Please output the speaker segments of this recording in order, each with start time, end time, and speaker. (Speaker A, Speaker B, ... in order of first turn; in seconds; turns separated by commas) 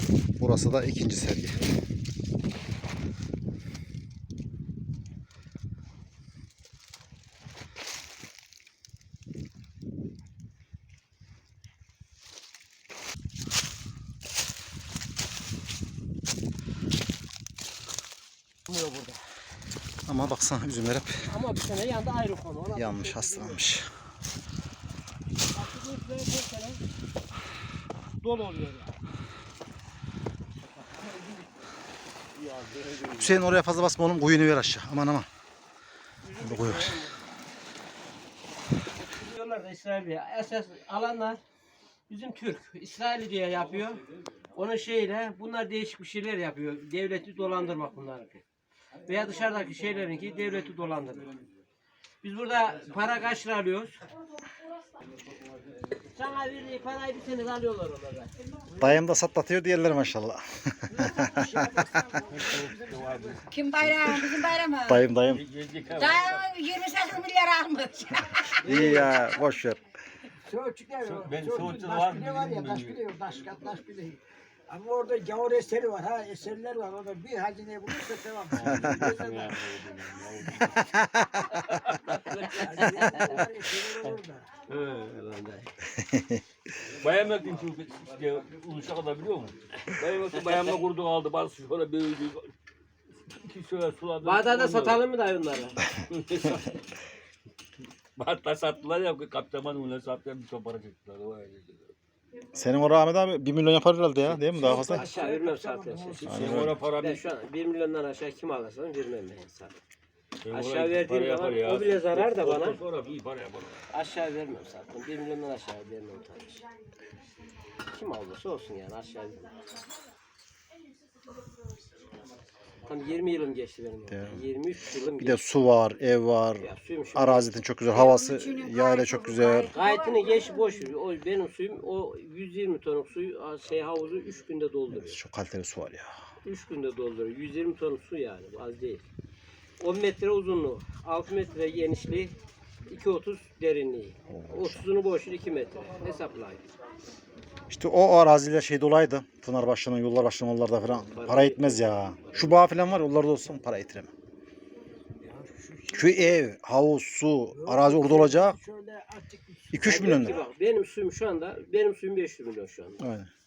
Speaker A: 0.4-1.7, Speaker B: 18.7-19.2, Speaker A: 20.1-21.2, Speaker B: 21.2-23.7, Speaker A: 22.7-23.9, Speaker B: 25.5-26.8, Speaker B: 28.2-29.0, Speaker B: 30.8-31.5, Speaker C: 32.4-33.3, Speaker A: 33.2-35.3, Speaker B: 36.2-37.2, Speaker A: 36.4-37.0, Speaker B: 39.0-41.4, Speaker B: 42.1-48.4, Speaker B: 49.0-51.4, Speaker B: 52.2-54.0, Speaker B: 56.0-58.3, Speaker A: 58.8-61.8, Speaker D: 61.1-63.4, Speaker C: 62.3-64.3, Speaker E: 63.5-65.1, Speaker A: 64.9-65.4, Speaker C: 65.3-66.6, Speaker E: 65.9-68.8, Speaker A: 68.6-69.8, Speaker D: 70.4-79.8, Speaker C: 71.0-73.0, Speaker C: 78.5-80.8, Speaker A: 78.6-79.1, Speaker A: 81.0-81.2, Speaker B: 81.7-83.4, Speaker D: 82.4-84.5, Speaker C: 84.8-85.0, Speaker B: 84.8-85.7, Speaker A: 86.0-86.4, Speaker C: 86.8-92.5, Speaker C: 93.3-95.0, Speaker B: 94.2-95.9, Speaker C: 96.1-96.8, Speaker C: 98.2-101.9, Speaker A: 102.5-105.1, Speaker D: 104.5-106.7, Speaker B: 104.5-109.8, Speaker A: 106.2-106.8, Speaker C: 106.3-107.2, Speaker C: 110.4-113.8, Speaker B: 110.5-112.8, Speaker B: 113.9-116.6, Speaker B: 117.8-119.6, Speaker B: 122.8-125.4, Speaker A: 124.1-124.4, Speaker A: 125.2-129.7, Speaker B: 126.6-127.5, Speaker E: 127.9-130.5, Speaker B: 129.7-135.2, Speaker A: 134.9-136.1, Speaker B: 136.4-139.1, Speaker B: 139.8-142.3, Speaker B: 142.9-146.7, Speaker A: 144.3-144.9, Speaker A: 147.7-154.1, Speaker B: 151.1-152.4, Speaker D: 155.4-156.4, Speaker A: 155.9-158.6, Speaker D: 157.5-160.5, Speaker A: 159.7-160.4, Speaker B: 159.8-163.1, Speaker A: 163.0-163.3